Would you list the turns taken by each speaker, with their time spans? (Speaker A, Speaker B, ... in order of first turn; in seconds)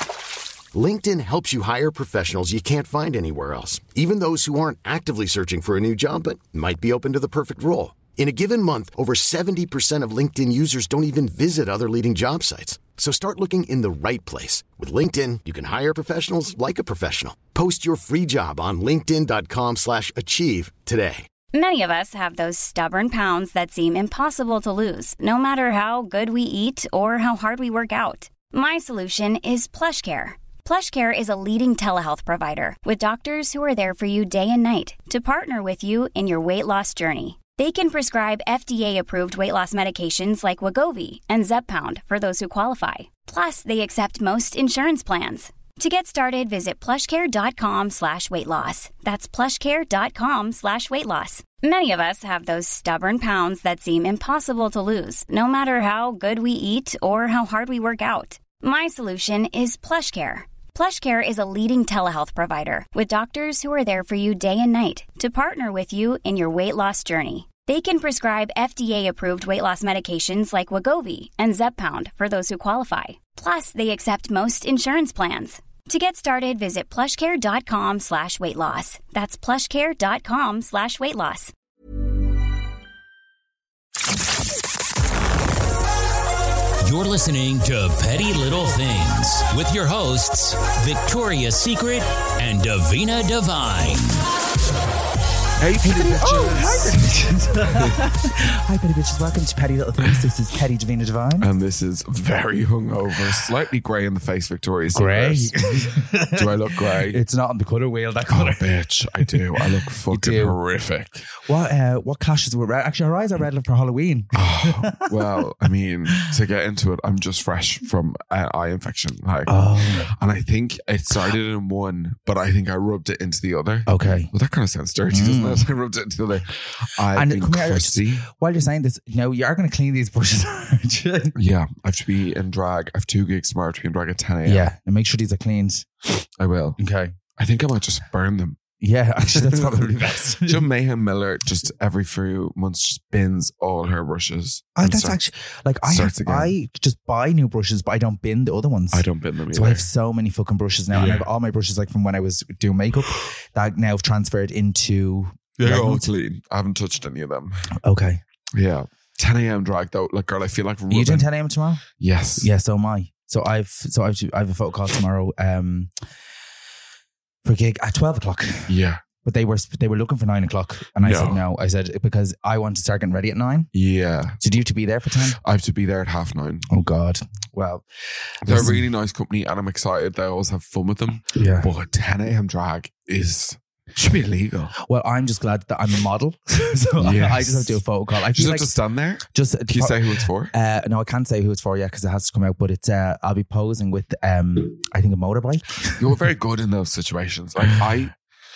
Speaker A: 0.7-21.3
Speaker B: 21.5-81.5
Speaker C: 86.8-94.3
Speaker D: 95.6-97.1, 97.7-98.0, 101.4-107.2, 108.3-111.3, 114.3-128.3, 131.3-134.7, 136.4-136.8, 137.4-138.6, 139.3-145.2, 145.9-146.5, 148.9-149.8, 150.9-151.3, 155.6-157.7, 158.5-161.3, 162.0-162.5, 168.7-169.0, 171.0-171.4, 173.7-174.4, 175.4-176.7, 178.4-184.7, 187.0-187.8, 188.3-190.5, 196.0-198.1
Speaker E: 95.8-101.5, 104.9-110.6, 111.4-115.5, 119.5-120.1, 123.9-124.3, 125.1-125.7, 127.1-131.3, 134.4-135.8, 136.8-137.1, 138.8-140.6, 144.8-156.1, 157.8-158.2, 160.9-161.8, 162.4-165.9, 167.4-173.7, 174.4-175.4, 176.7-177.8, 178.5-178.8, 181.3-181.7, 184.8-196.0